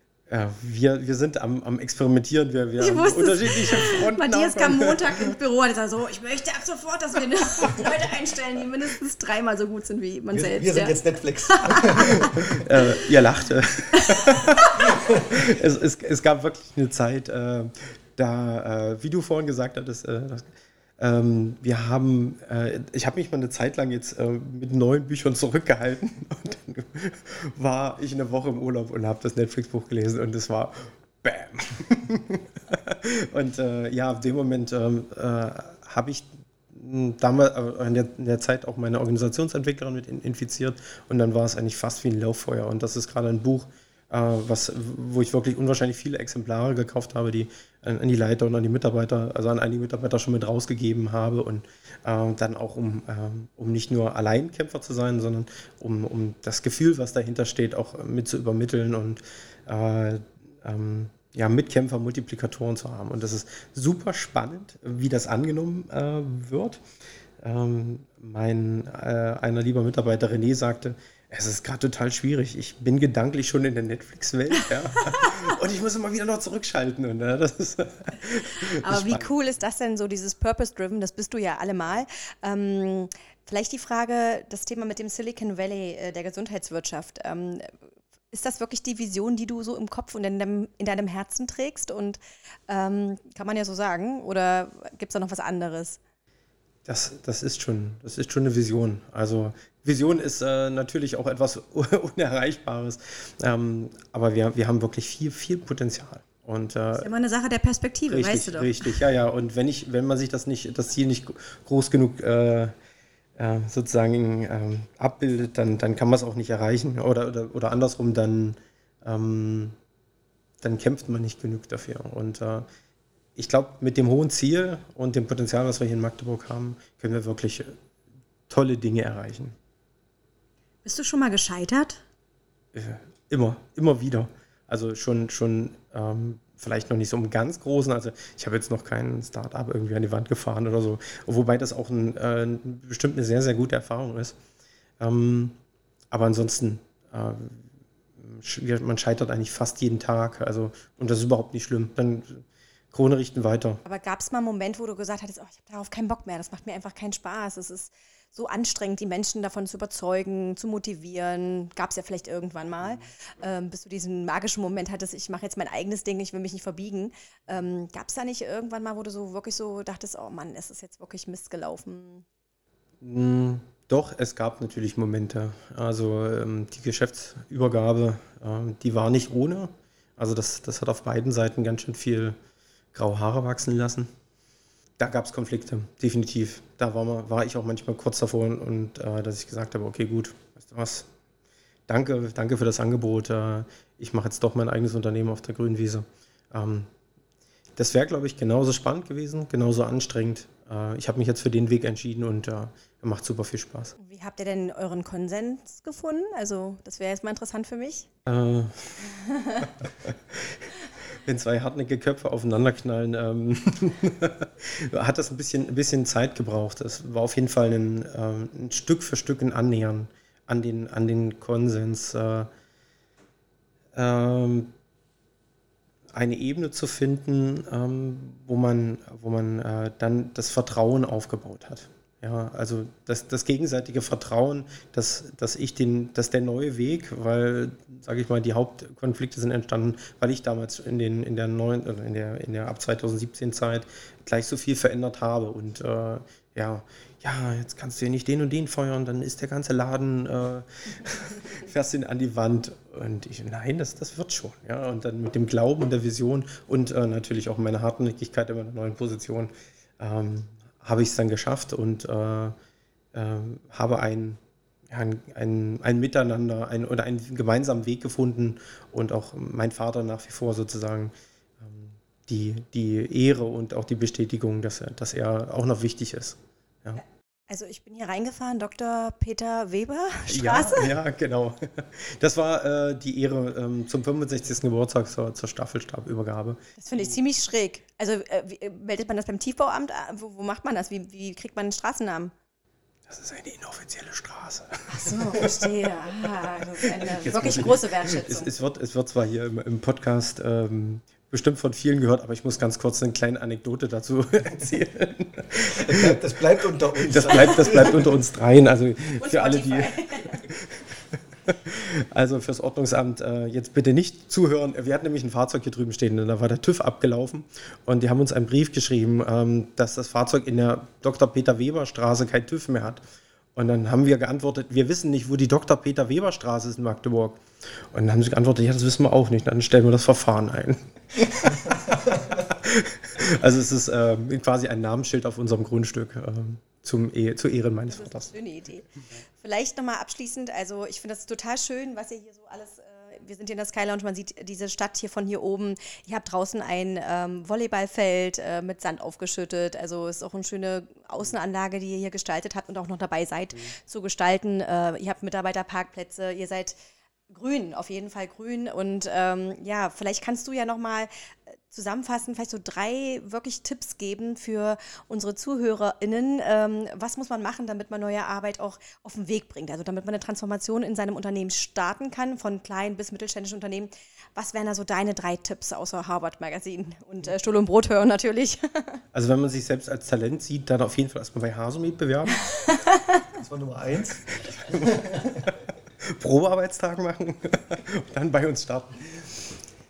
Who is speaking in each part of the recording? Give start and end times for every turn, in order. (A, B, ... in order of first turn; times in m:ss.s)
0:00.3-0:05.3 A
0:02.8-0:12.3 B
0:10.3-0:12.6 C
0:12.5-1:06.8 A
0:13.9-0:14.8 B
0:14.9-0:15.4 C
1:07.4-1:19.3 A
1:15.0-1:15.3 B
1:18.4-1:27.7 B
1:28.3-1:36.0 B
1:36.8-1:47.1 A
1:46.9-1:49.0 B
1:48.1-1:52.7 A
1:53.4-1:59.8 A
2:00.6-2:02.7 A
2:03.4-2:07.8 A
2:08.5-2:09.6 A
2:10.8-2:12.0 B
2:12.7-2:24.4 A
2:25.0-2:25.6 A
2:26.1-2:33.8 A
2:33.8-2:52.2 B
2:53.0-3:02.4 A
3:02.9-3:04.1 A
3:05.0-3:11.1 A
3:11.9-3:16.9 A
3:17.8-3:23.9 A
3:24.0-3:28.1 B
3:28.2-3:42.5 A
3:29.1-3:29.7 B
3:43.9-3:44.7 A
3:46.1-4:22.5 A
4:23.1-4:37.0 A
4:37.5-4:40.9 B
4:40.3-4:47.2 A
4:46.8-4:52.3 B
4:53.1-5:06.1 A
4:54.9-4:58.5 B
5:05.6-5:08.1 C
5:07.0-5:23.0 A
5:09.2-5:10.4 B
5:23.5-5:38.3 A
5:37.9-5:56.8 B
5:57.3-6:19.0 B
6:19.1-6:22.5 A
6:22.4-6:23.2 B
6:23.3-6:25.5 C
6:24.5-6:29.6 A